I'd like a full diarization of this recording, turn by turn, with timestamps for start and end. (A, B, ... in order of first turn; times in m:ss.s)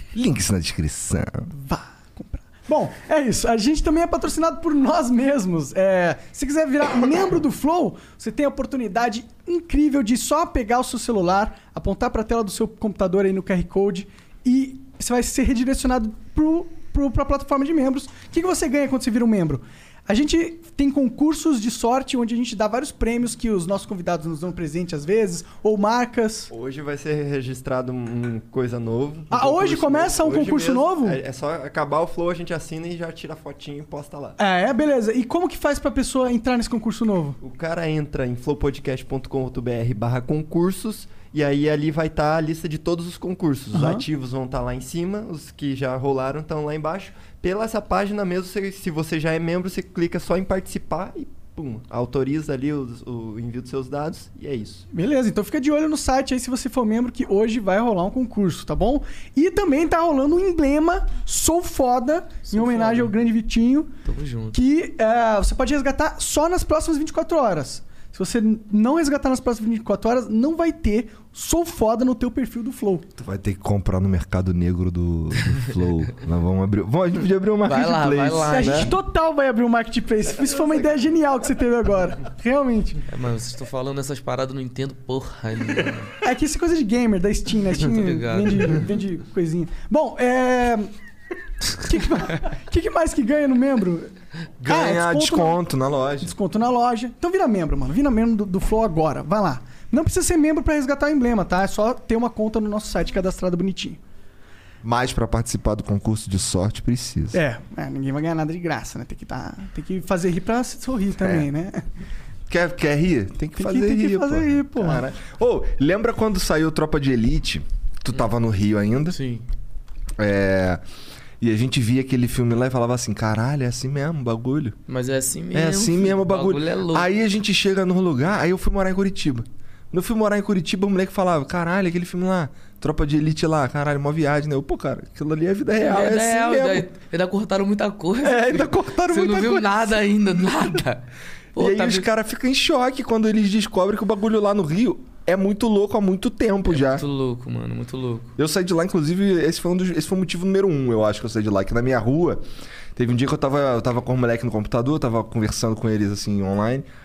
0:00.1-0:01.5 A
0:01.5-0:26.5 B
0:26.5-0:34.4 C
0:29.3-0:31.2 B
0:34.4-0:37.4 B
0:37.4-0:54.9 C
0:43.7-0:44.0 B
0:54.9-1:03.9 B
1:02.4-1:03.1 D
1:04.0-1:04.6 D
1:04.5-1:13.0 B
1:13.2-1:18.9 A
1:17.6-1:18.9 D
1:18.5-1:23.0 B
1:23.1-1:26.1 D
1:26.2-1:30.9 B
1:27.8-1:28.8 D
1:31.7-1:34.1 B
1:34.6-1:36.3 A
1:34.6-1:35.6 B
1:36.2-1:44.0 B
1:44.8-1:47.4 A
1:47.3-1:51.8 B
1:51.2-1:51.5 A
1:52.5-1:59.2 A
1:53.6-1:55.0 B
1:59.0-1:59.4 D
2:00.2-2:00.8 A
2:01.4-2:04.8 A
2:04.9-2:07.1 D
2:05.5-2:16.9 A
2:15.8-2:22.1 D
2:18.2-2:19.7 A
2:21.6-2:27.0 A
2:26.7-2:28.3 D
2:28.4-2:32.4 A
2:33.0-2:36.8 A